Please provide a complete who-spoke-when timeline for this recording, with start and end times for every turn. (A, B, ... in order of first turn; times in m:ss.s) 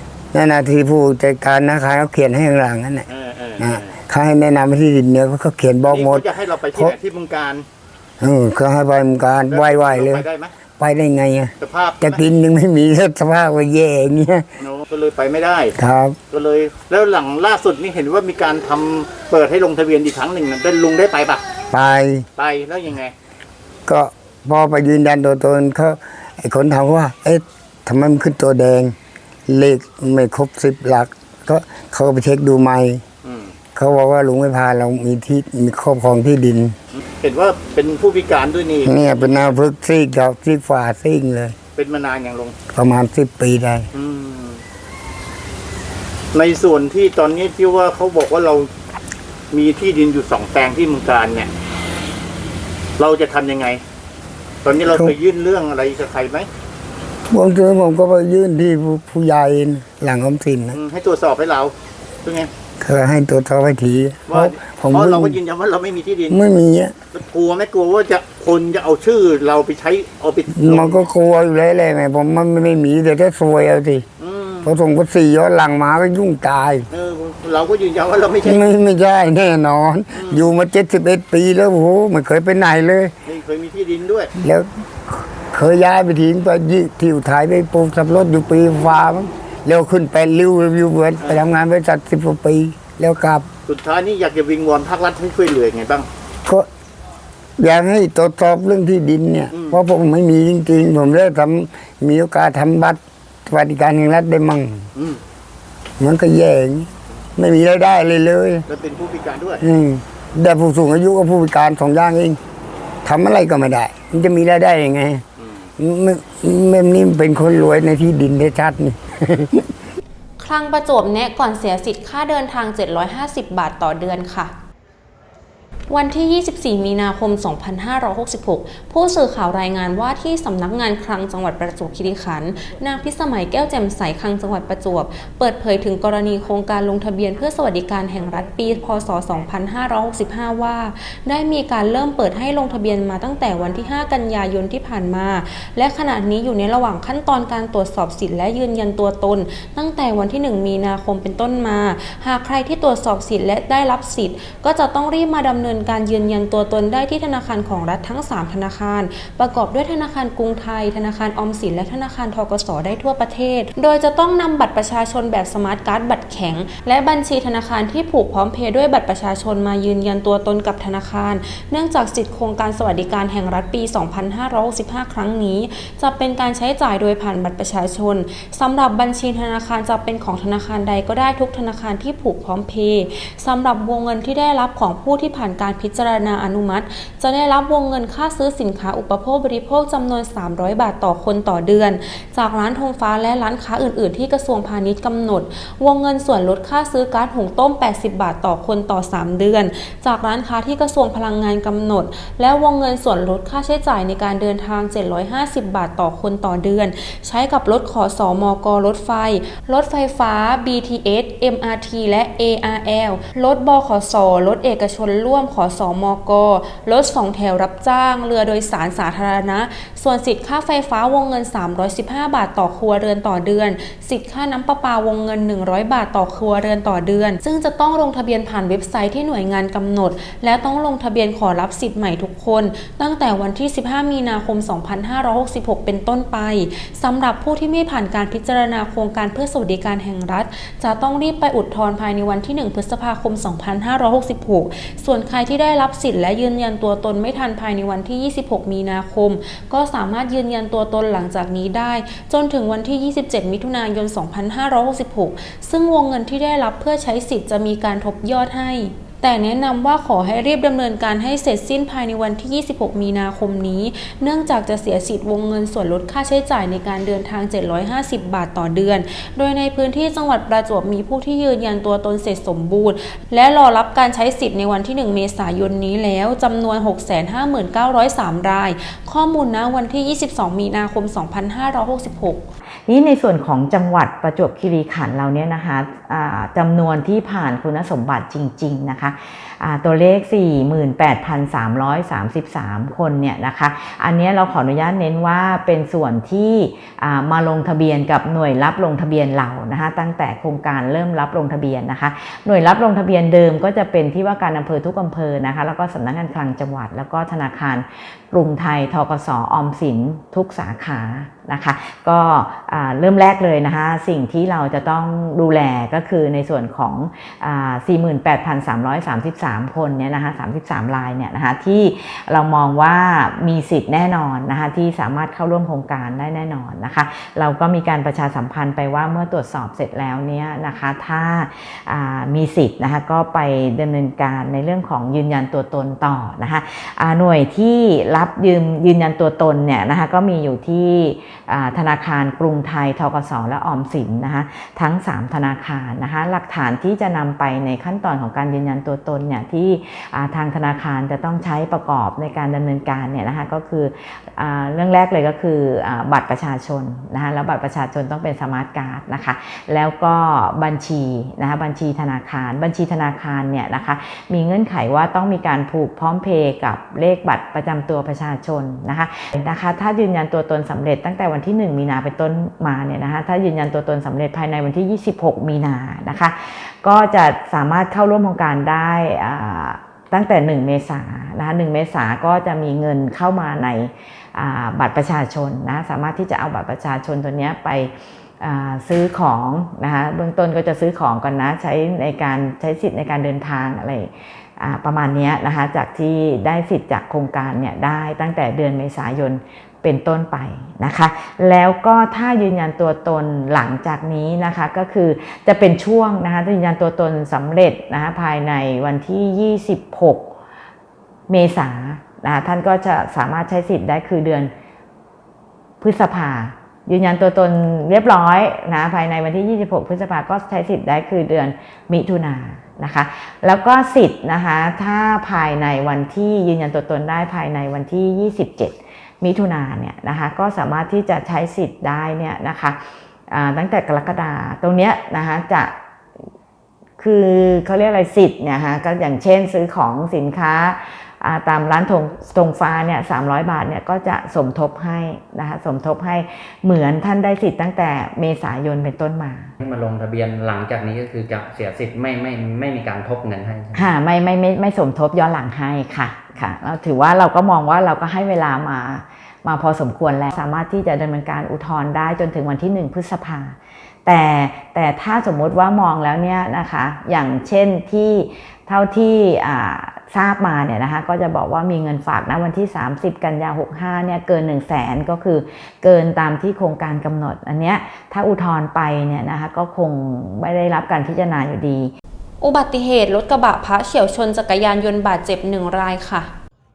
0:00.3-0:03.1 A
0:03.1-0:03.9 B
0:03.6-0:06.9 A
0:05.8-0:07.6 B
0:08.2-0:10.2 A
0:09.5-0:10.5 B
0:10.8-0:14.5 A
0:11.6-0:12.2 B
0:14.6-0:15.7 B
0:15.8-0:16.2 A
0:16.3-0:21.4 B
0:21.7-0:22.3 A
0:22.4-0:23.1 B
0:23.8-0:28.9 A
0:29.5-0:33.0 A
0:33.2-0:33.5 B
0:33.7-0:36.8 A
0:36.9-0:39.6 B
0:38.8-0:41.6 A
0:41.7-0:42.5 B
0:42.7-0:43.9 A
0:43.9-0:44.6 B
0:46.3-0:48.7 B
0:49.5-0:51.5 B
0:53.0-0:53.8 B
0:54.6-0:56.5 B
0:54.9-0:55.1 A
0:57.3-1:00.8 A
1:00.7-1:02.5 B
1:02.8-1:05.4 A
1:04.3-1:06.4 B
1:06.3-1:07.0 A
1:07.1-1:11.0 B
1:10.5-1:14.0 A
1:14.2-1:14.7 B
1:14.6-1:16.9 A
1:16.9-1:18.7 B
1:18.4-1:23.1 A
1:20.1-1:20.5 B
1:23.2-1:24.3 B
1:24.3-1:33.5 A
1:33.6-1:36.1 B
1:37.6-1:44.9 A
1:39.5-1:39.8 B
1:44.9-1:45.2 B
1:46.0-1:48.6 A
1:48.7-1:49.6 B
1:49.6-1:52.4 A
1:53.0-1:55.2 A
1:55.4-1:55.7 B
1:55.8-1:59.7 A
2:00.4-2:04.5 C
2:05.9-4:42.5 C
4:42.8-6:50.3 D
6:51.3-6:54.5 D
6:55.8-7:15.7 D
7:17.0-7:29.5 D
7:29.6-7:33.9 E
7:33.7-8:01.9 D
8:02.4-8:06.3 C